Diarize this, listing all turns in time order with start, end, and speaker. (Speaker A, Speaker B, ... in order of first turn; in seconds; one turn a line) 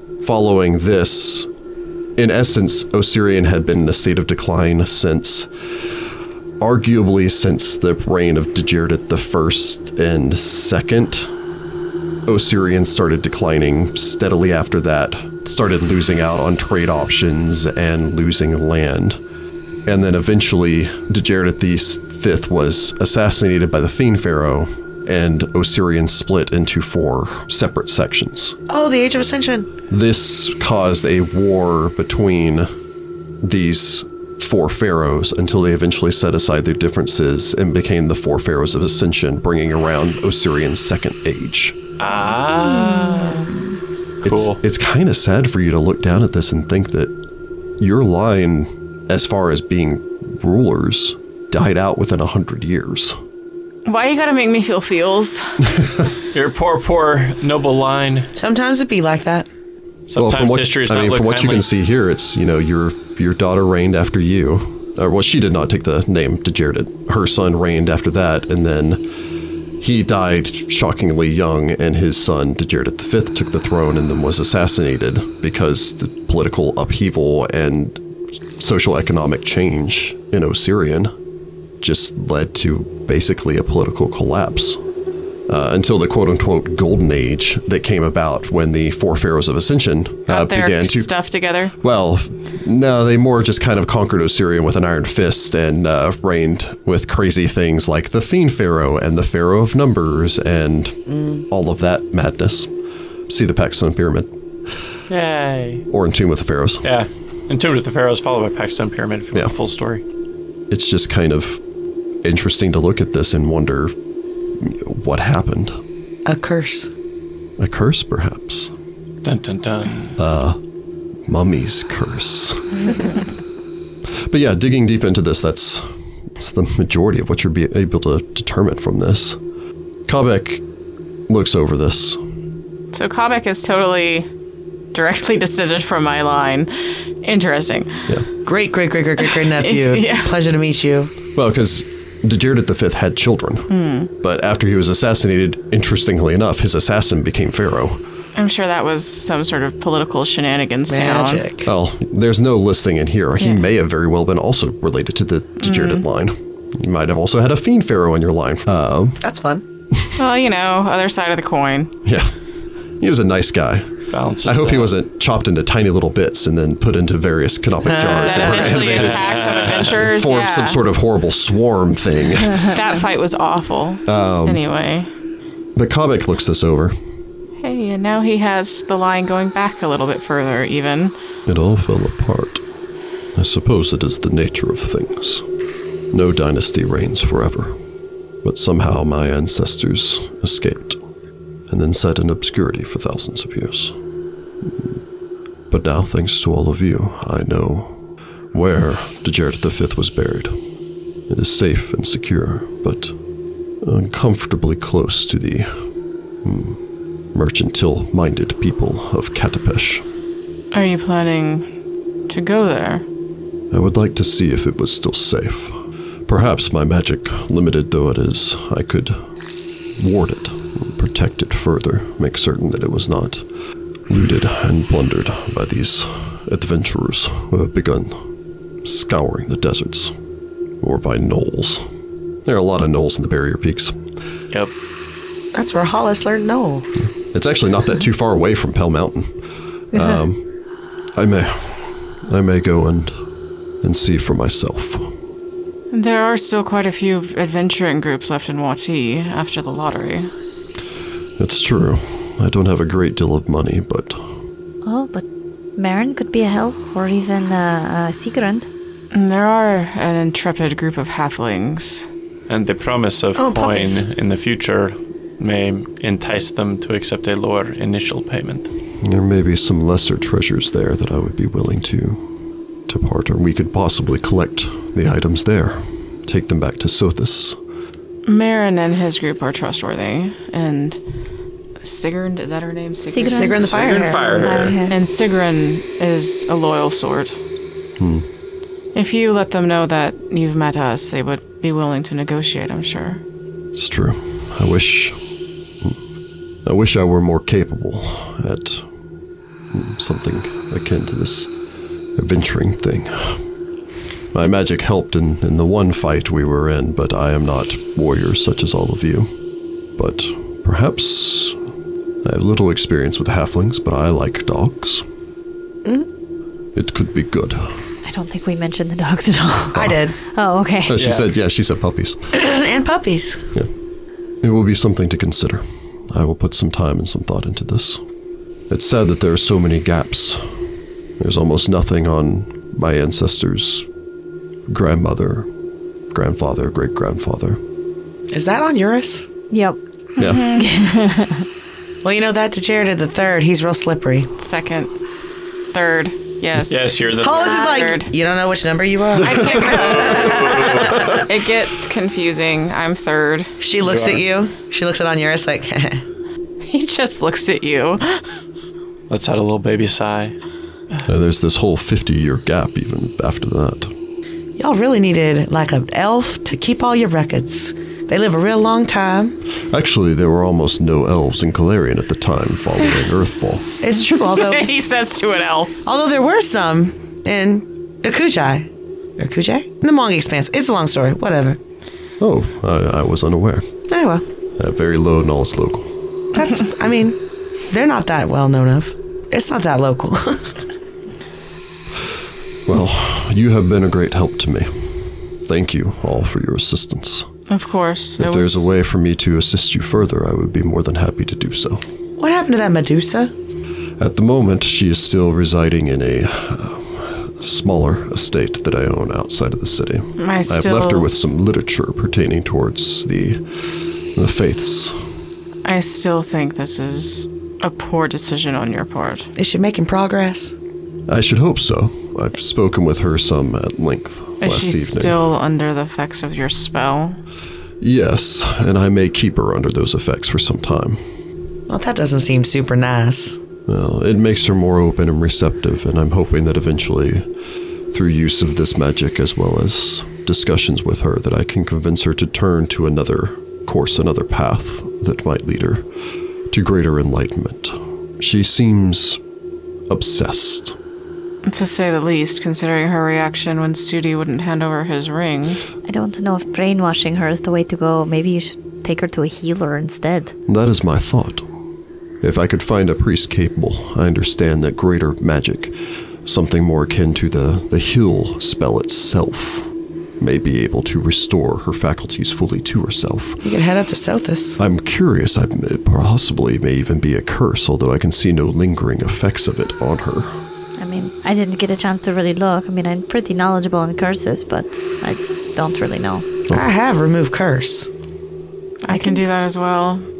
Speaker A: 0.2-1.5
Speaker A: 2.2-5.5
Speaker A: 6.6-11.3
Speaker A: 12.3-19.2
Speaker A: 19.9-28.6
Speaker B: 28.7-29.7
Speaker A: 29.9-32.7
Speaker A: 33.4-41.8
Speaker C: 42.0-43.6
Speaker A: 44.2-47.1
Speaker C: 44.2-44.6
Speaker A: 47.8-53.2
Speaker D: 53.9-55.6
Speaker C: 56.3-58.3
Speaker B: 58.3-59.5
Speaker C: 60.1-61.7
Speaker A: 60.1-69.0
Speaker A: 69.8-78.0
Speaker A: 78.6-81.1
Speaker A: 81.8-84.8
Speaker A: 85.5-91.1
Speaker D: 90.3-91.7
Speaker A: 91.8-102.7
Speaker B: 101.1-101.4
Speaker A: 103.3-104.3
Speaker C: 105.1-105.8
Speaker A: 105.9-106.8
Speaker C: 106.8-110.0
Speaker A: 110.7-111.6
Speaker A: 112.2-113.9
Speaker A: 114.6-115.7
Speaker B: 116.2-116.9
Speaker A: 117.6-118.7
Speaker C: 119.2-120.2
Speaker A: 120.2-120.6
Speaker A: 121.3-122.8
Speaker A: 124.3-125.8
Speaker A: 126.4-129.4
Speaker A: 130.1-130.6
Speaker A: 131.3-132.2
Speaker D: 132.9-134.3
Speaker D: 134.9-138.0
Speaker B: 138.4-141.1
Speaker D: 139.3-140.3
Speaker A: 141.3-143.7
Speaker D: 143.7-144.1
Speaker A: 144.2-148.0
Speaker D: 148.3-151.4
Speaker B: 150.9-151.7
Speaker A: 151.6-159.2
Speaker D: 155.6-156.0
Speaker B: 159.2-159.6
Speaker D: 160.2-161.9
Speaker A: 162.0-162.3
Speaker A: 163.0-163.9
Speaker C: 164.1-164.9
Speaker A: 164.4-172.8
Speaker B: 167.8-168.9
Speaker D: 168.1-170.8
Speaker C: 168.7-170.0
Speaker D: 172.6-175.1
Speaker A: 174.1-174.6
Speaker A: 175.8-176.9
Speaker D: 177.6-181.1
Speaker A: 181.5-182.6
Speaker A: 183.3-185.4
Speaker A: 186.1-187.8
Speaker A: 188.4-191.0
Speaker A: 191.7-193.9
Speaker A: 195.7-197.9
Speaker A: 198.5-200.5
Speaker A: 201.3-203.1
Speaker A: 203.8-205.7
Speaker A: 206.4-206.8
Speaker A: 207.3-210.0
Speaker D: 210.7-211.7
Speaker D: 212.3-213.0
Speaker A: 213.7-215.7
Speaker A: 216.3-219.2
Speaker A: 220.0-223.4
Speaker A: 224.1-228.1
Speaker A: 228.8-230.1
Speaker A: 230.8-231.8
Speaker A: 232.4-233.9
Speaker B: 235.5-236.9
Speaker A: 237.3-239.3
Speaker A: 239.9-240.4
Speaker A: 241.2-243.1
Speaker A: 243.8-245.1
Speaker D: 245.9-250.3
Speaker A: 251.4-254.2
Speaker E: 254.8-255.2
Speaker E: 255.8-258.7
Speaker D: 259.1-262.1
Speaker C: 262.5-268.7
Speaker B: 263.4-264.0
Speaker A: 269.0-272.2
Speaker A: 272.9-277.6
Speaker D: 278.2-281.0
Speaker D: 281.8-283.6
Speaker E: 283.0-285.0
Speaker B: 283.2-284.6
Speaker C: 283.6-284.8
Speaker D: 284.9-287.4
Speaker A: 288.0-288.2
Speaker D: 288.9-293.2
Speaker A: 293.7-295.2
Speaker A: 296.6-298.9
Speaker A: 299.7-301.5
Speaker A: 302.2-303.4
Speaker A: 304.3-309.3
Speaker A: 310.0-311.6
Speaker A: 312.2-315.0
Speaker A: 316.7-317.7
Speaker E: 318.0-321.0
Speaker B: 319.7-320.1
Speaker A: 320.9-322.2
Speaker C: 321.0-321.2
Speaker B: 322.3-323.4
Speaker A: 324.4-328.0
Speaker A: 328.7-330.4
Speaker A: 331.2-333.9
Speaker A: 334.7-335.5
Speaker A: 336.1-337.6
Speaker B: 338.3-339.2
Speaker E: 339.5-339.8
Speaker A: 340.2-340.4
Speaker D: 340.2-341.1
Speaker E: 340.5-341.3
Speaker B: 342.0-344.3
Speaker D: 344.4-344.9
Speaker D: 345.7-348.1
Speaker C: 346.6-347.6
Speaker B: 347.2-351.2
Speaker D: 349.2-350.3
Speaker C: 349.6-351.2
Speaker D: 350.9-353.6
Speaker B: 353.6-356.0
Speaker C: 353.8-354.2
Speaker D: 356.6-358.2
Speaker C: 359.1-360.3
Speaker A: 361.1-363.9
Speaker B: 364.6-369.4
Speaker A: 369.7-373.7
Speaker B: 373.8-374.7
Speaker D: 374.3-375.8
Speaker B: 375.8-381.6
Speaker A: 382.2-383.6
Speaker B: 383.9-384.2
Speaker A: 384.6-385.9
Speaker B: 386.3-387.2
Speaker B: 387.7-390.5
Speaker A: 392.7-394.7
Speaker A: 395.5-397.3
Speaker D: 397.5-398.7
Speaker A: 398.2-401.8
Speaker B: 402.2-403.3
Speaker A: 404.0-413.4
Speaker D: 410.2-411.1
Speaker A: 414.1-414.9
Speaker D: 415.6-419.3
Speaker B: 419.4-420.5
Speaker A: 421.1-425.2
Speaker D: 424.4-427.2
Speaker A: 427.8-431.0
Speaker B: 431.7-433.4
Speaker A: 433.7-437.2
Speaker A: 437.9-445.8
Speaker A: 446.5-449.2
Speaker A: 449.9-450.8
Speaker D: 451.4-455.6
Speaker E: 455.9-460.3
Speaker A: 460.5-461.4
Speaker A: 462.2-465.7
Speaker A: 466.2-469.7
Speaker A: 470.2-473.4
Speaker B: 473.4-474.6
Speaker A: 474.6-480.3
Speaker E: 480.8-486.2
Speaker B: 486.5-487.9
Speaker D: 488.8-490.1
Speaker E: 488.9-489.2